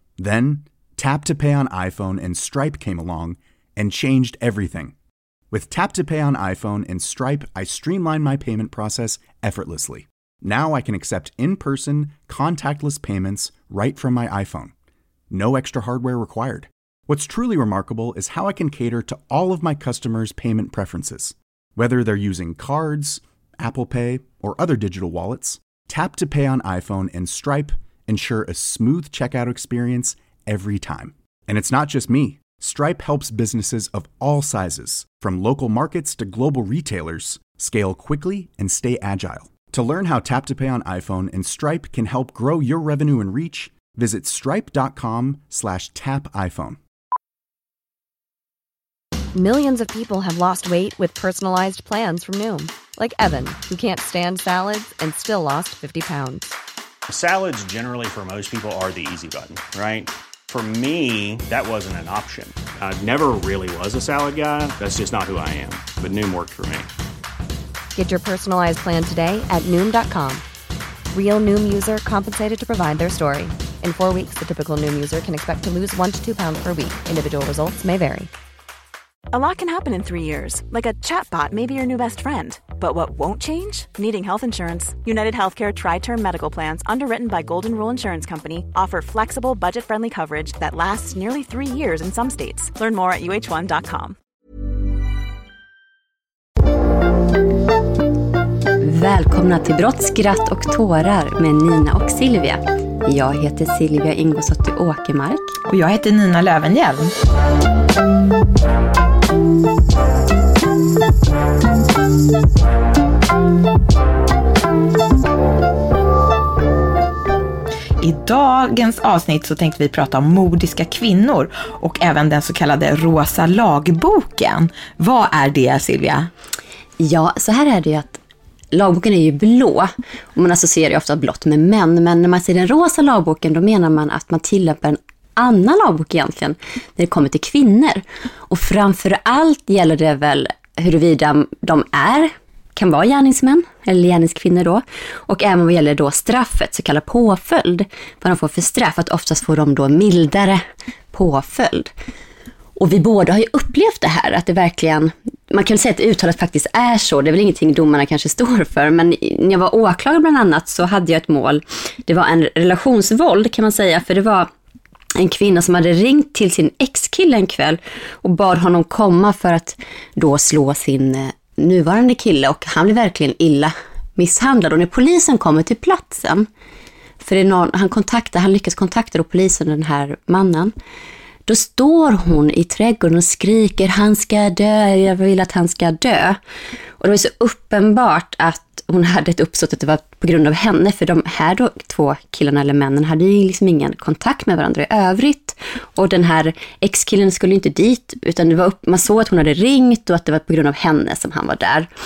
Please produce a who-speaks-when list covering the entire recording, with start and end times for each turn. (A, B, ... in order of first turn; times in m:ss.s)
0:00.2-0:05.0 A
0:05.5-0:14.7 A
0:15.3-0:46.8 A
0:49.4-0:56.5 B
0:57.1-1:06.9 C
1:08.0-1:10.4 B
1:11.1-1:18.3 B
1:19.3-1:34.2 D
1:38.8-1:45.6 E
1:45.7-1:47.1 F
1:58.0-2:06.3 F
2:07.0-2:08.2 E
2:08.7-2:30.6 E
2:31.1-2:31.9 E
2:32.8-2:44.5 E
2:45.2-2:56.5 E
2:57.2-3:00.7 E
3:01.5-3:06.4 E
3:07.0-3:21.9 E